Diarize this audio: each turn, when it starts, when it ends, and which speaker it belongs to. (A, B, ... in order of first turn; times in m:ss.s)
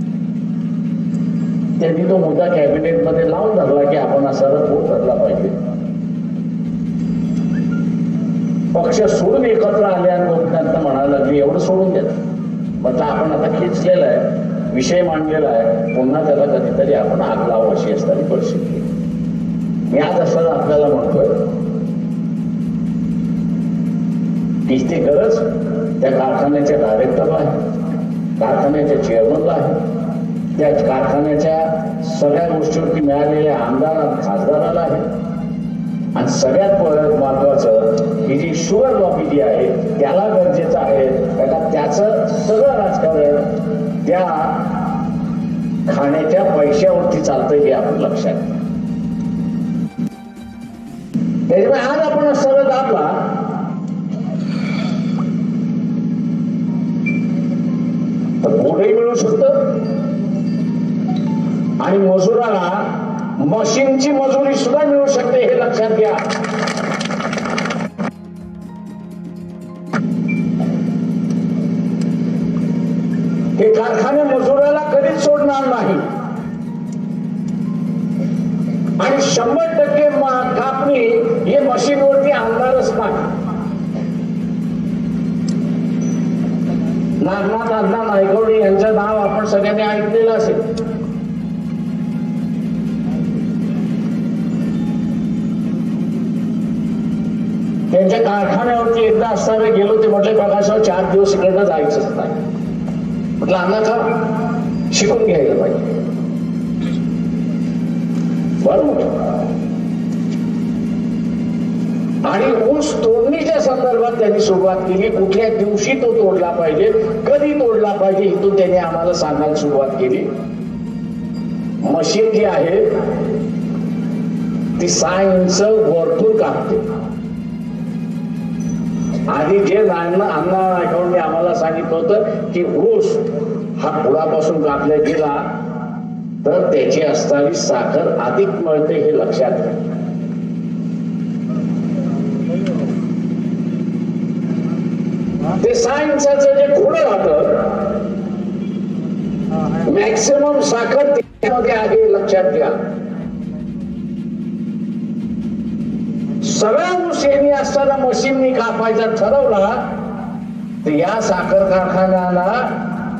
0:01.8-0:05.5 A
0:08.7-0:12.2 A
0:12.8-0:18.8 A
0:19.9-0:21.4 A
0:24.6-0:25.5 A
0:26.0-0:27.6 A
0:28.4-0:29.8 A
0:30.6-0:35.1 A
0:36.1-0:43.5 A
0:44.0-0:44.7 A
0:45.9-0:48.6 A
0:51.5-0:53.4 A
0:58.4-0:59.6 A
1:01.8-1:06.2 A
1:13.6-1:16.0 A
1:19.0-1:23.3 A
1:27.2-1:30.6 A
1:37.9-1:42.4 A
1:43.4-1:44.3 A
1:44.9-1:46.0 A
1:48.6-1:49.3 A
1:52.2-2:00.3 A
2:01.8-2:03.0 A
2:04.8-2:06.8 A
2:09.3-2:15.5 A
2:16.4-2:19.8 A
2:25.6-2:27.8 A
2:29.8-2:32.8 A
2:36.4-2:39.9 A
2:40.8-2:42.8 A